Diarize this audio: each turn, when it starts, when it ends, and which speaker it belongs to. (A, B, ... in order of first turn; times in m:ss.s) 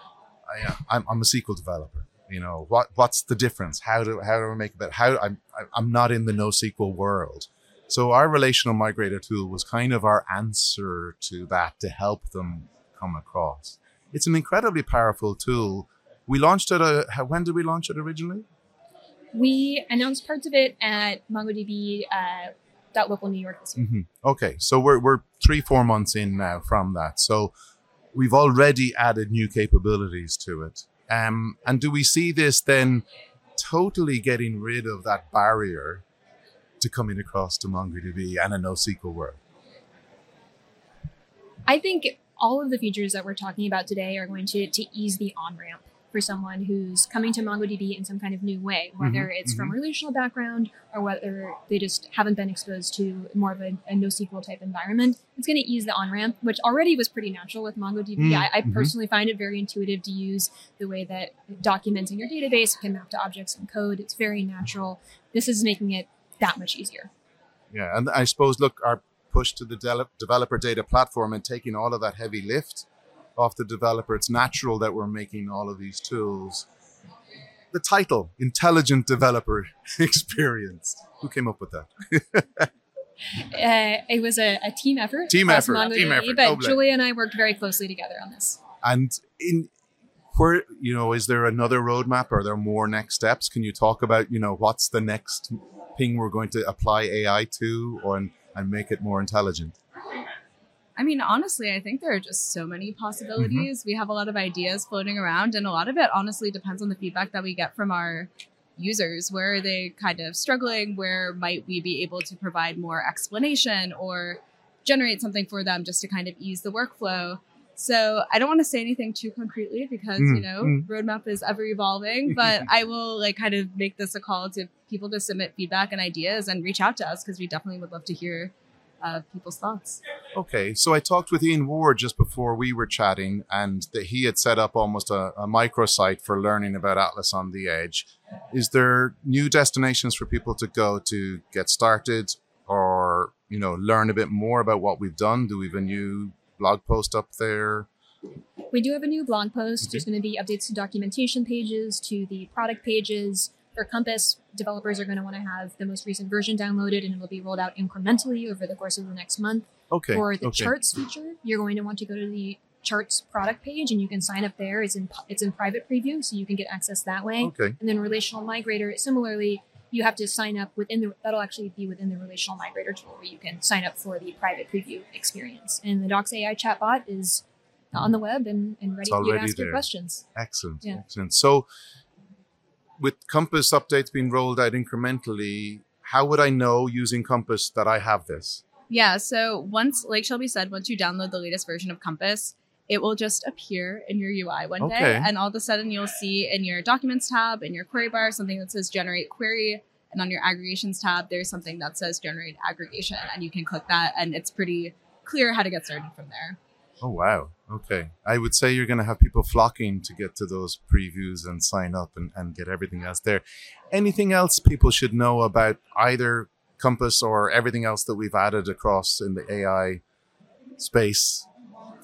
0:00.5-0:18.4 A
0:19.3-0:23.8 B
0:23.8-0:27.5 A
0:28.1-0:33.0 A
0:33.6-0:36.0 A
0:36.8-0:39.4 A
0:41.7-1:07.1 B
0:49.0-0:49.7 A
0:58.2-0:58.9 A
1:07.7-1:16.7 A
1:17.7-1:22.7 A
1:23.4-1:28.6 B
1:25.3-1:26.8 A
1:28.8-1:29.7 A
1:30.3-1:39.7 A
1:41.0-2:10.0 C
1:43.4-1:43.7 A
2:00.2-2:00.8 A
2:10.3-2:27.9 A
2:28.7-3:00.2 B
2:39.9-2:40.7 A
2:47.4-2:47.8 A
2:59.0-2:59.8 A
3:00.3-3:01.7 A
3:03.0-3:08.6 A
3:08.9-3:26.6 C
3:14.8-3:15.3 A
3:27.0-3:40.0 A
3:40.8-3:41.5 A